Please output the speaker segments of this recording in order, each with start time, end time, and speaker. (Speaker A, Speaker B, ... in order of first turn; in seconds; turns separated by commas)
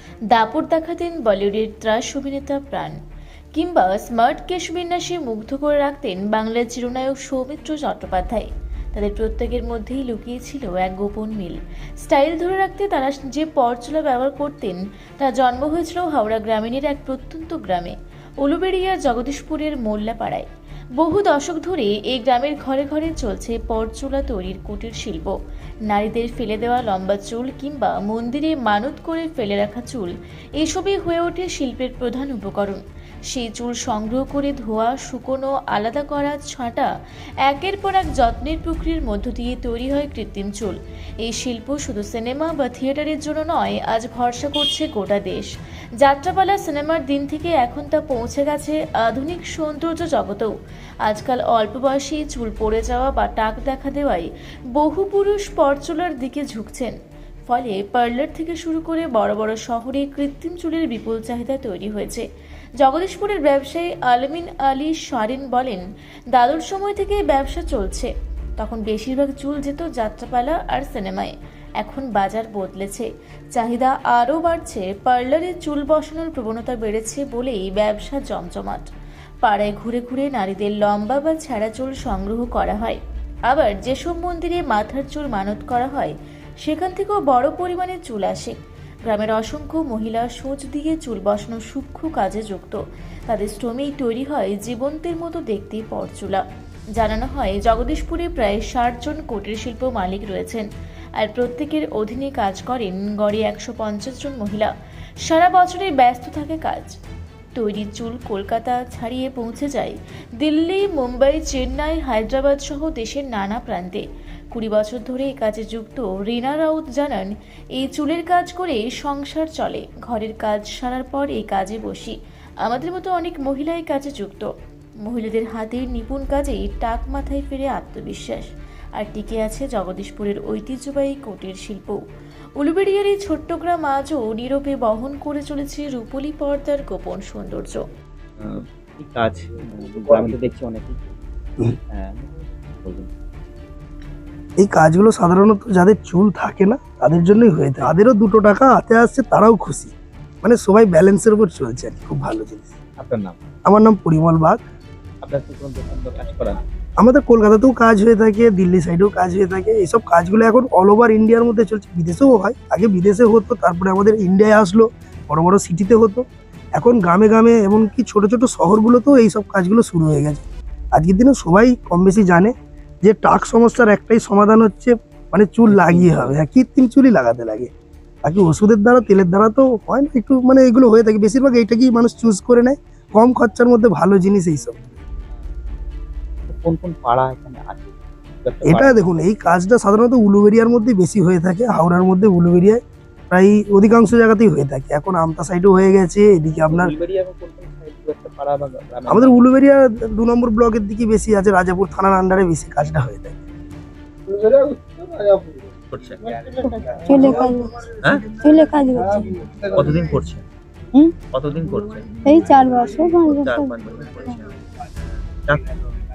Speaker A: 0.3-3.0, Speaker A: 3.5-20.4, Speaker A: 21.0-25.3, Speaker A: 25.9-36.9, Speaker A: 37.4-45.5, Speaker A: 46.0-50.5, Speaker A: 51.0-57.0, Speaker A: 57.5-62.2, Speaker A: 62.8-78.9, Speaker A: 79.4-96.4, Speaker A: 96.9-100.7, Speaker A: 101.2-104.7, Speaker A: 105.2-107.0, Speaker A: 107.5-124.5, Speaker A: 125.0-132.0, Speaker A: 132.6-137.8, Speaker B: 138.4-141.2, Speaker B: 141.9-143.1, Speaker C: 144.6-152.7, Speaker B: 153.0-153.4, Speaker C: 153.7-154.6, Speaker B: 155.2-156.6, Speaker C: 157.0-166.2, Speaker C: 166.8-177.7, Speaker B: 175.7-176.4, Speaker C: 178.2-184.8, Speaker B: 186.5-189.2, Speaker C: 188.7-196.9, Speaker B: 196.5-199.4, Speaker C: 199.1-203.4, Speaker B: 205.9-206.2, Speaker D: 206.6-207.8, Speaker B: 208.0-208.4, Speaker D: 208.4-209.6, Speaker B: 209.7-210.4, Speaker B: 211.3-212.1, Speaker D: 212.2-213.8, Speaker B: 213.3-214.7, Speaker B: 215.4-215.8